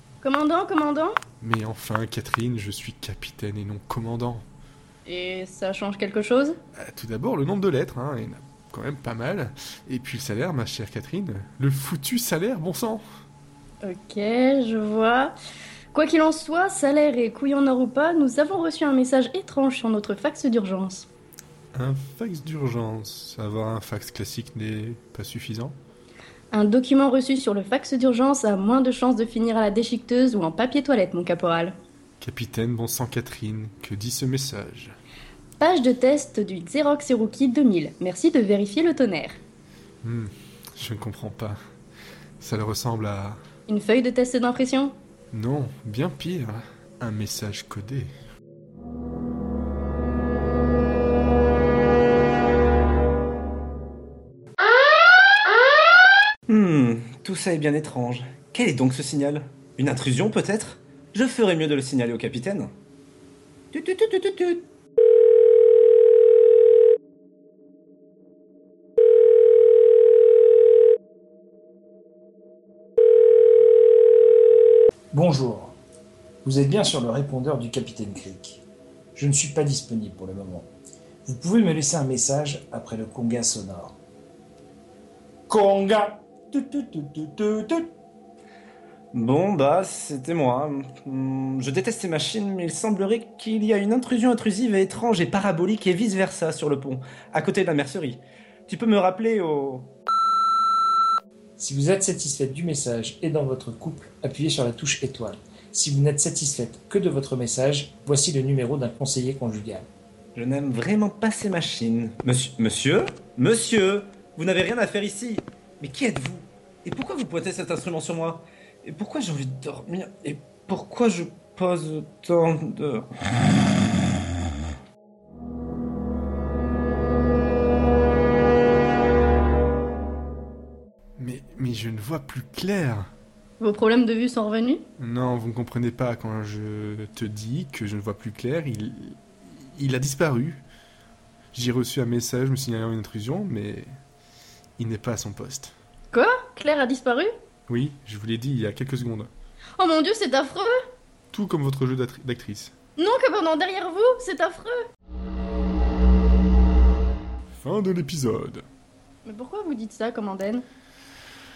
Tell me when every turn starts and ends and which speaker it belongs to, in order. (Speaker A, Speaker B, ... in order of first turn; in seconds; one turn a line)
Speaker A: 0.2-1.2
Speaker B: 1.4-4.5
Speaker A: 5.0-6.6
Speaker B: 6.8-13.0
Speaker A: 13.8-15.3
Speaker A: 15.9-21.1
Speaker B: 21.7-25.8
Speaker A: 26.5-31.7
Speaker B: 32.2-34.9
Speaker A: 35.6-39.4
Speaker B: 40.0-41.6
Speaker B: 42.4-43.4
Speaker A: 43.7-44.9
Speaker B: 45.3-46.6
Speaker B: 47.1-48.1
Speaker C: 56.5-62.7
Speaker C: 63.7-64.7
Speaker D: 75.1-75.8
Speaker D: 76.4-78.6
Speaker D: 79.1-80.7
Speaker D: 81.2-84.0
Speaker D: 85.5-87.9
Speaker C: 89.1-99.9
Speaker D: 101.6-109.9
Speaker C: 110.3-123.1
Speaker B: 131.2-133.1
Speaker A: 133.6-134.8
Speaker B: 135.0-140.6
Speaker B: 141.5-143.9
Speaker B: 144.8-145.7
Speaker A: 146.1-147.3
Speaker B: 147.7-149.3
Speaker A: 149.8-150.8
Speaker B: 151.3-152.7
Speaker A: 153.0-154.8
Speaker B: 157.5-158.6
Speaker A: 159.2-160.6